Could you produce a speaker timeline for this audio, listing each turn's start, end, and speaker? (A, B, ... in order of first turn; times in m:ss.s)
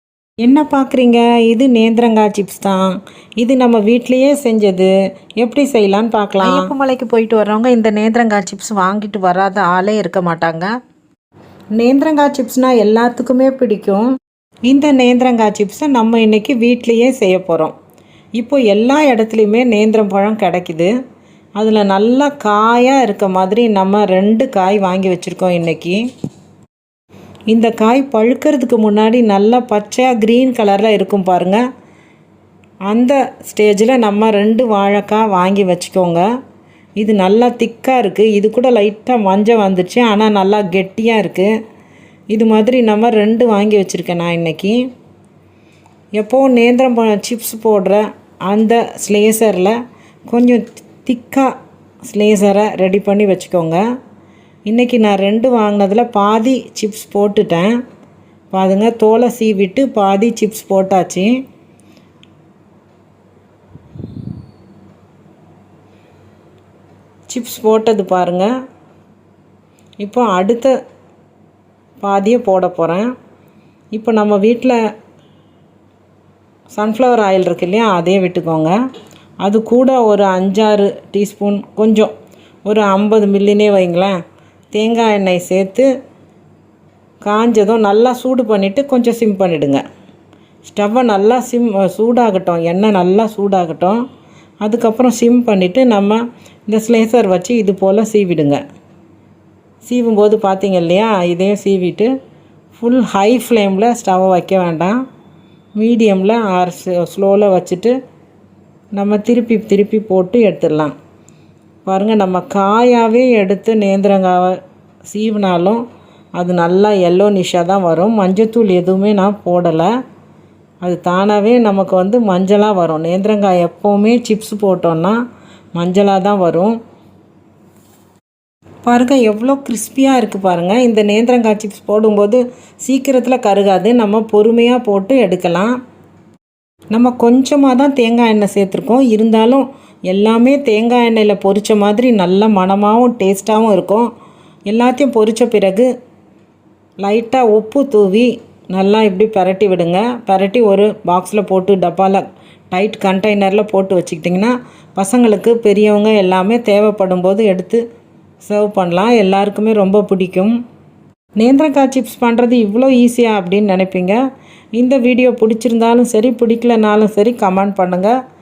0:00.4-0:10.7 A
0:11.8-0:14.0 A
0:14.7-0:17.7 A
0:18.4-0:20.9 A
0:21.6-0:26.0 A
0:27.5-0:31.6 A
0:32.9-0:36.2 A
0:37.0-0:41.5 A
0:42.3-0:44.8 A
0:46.2-0:49.8 A
0:50.3-0:51.5 A
0:52.1-0:53.8 A
0:54.7-0:57.7 A
0:58.5-1:01.3 A
1:07.3-1:08.5 A
1:10.0-1:10.7 A
1:12.0-1:13.1 A
1:13.9-1:14.8 A
1:16.7-1:18.8 A
1:19.4-1:22.1 A
1:22.7-1:24.2 A
1:24.7-1:25.9 A
1:27.2-1:29.8 A
1:30.6-1:34.0 A
1:34.6-1:38.6 A
1:39.8-1:42.1 A
1:42.7-1:45.0 A
1:45.8-1:47.9 A
1:49.0-1:50.9 A
1:51.9-1:55.8 A
1:56.4-1:59.9 A
2:00.8-2:05.2 A
2:05.8-2:06.8 A
2:08.8-2:15.7 A
2:16.9-2:24.1 A
2:24.7-2:25.9 A
2:27.0-2:37.8 A
2:38.4-2:40.5 A
2:41.4-2:44.2 A
2:44.8-2:48.1 A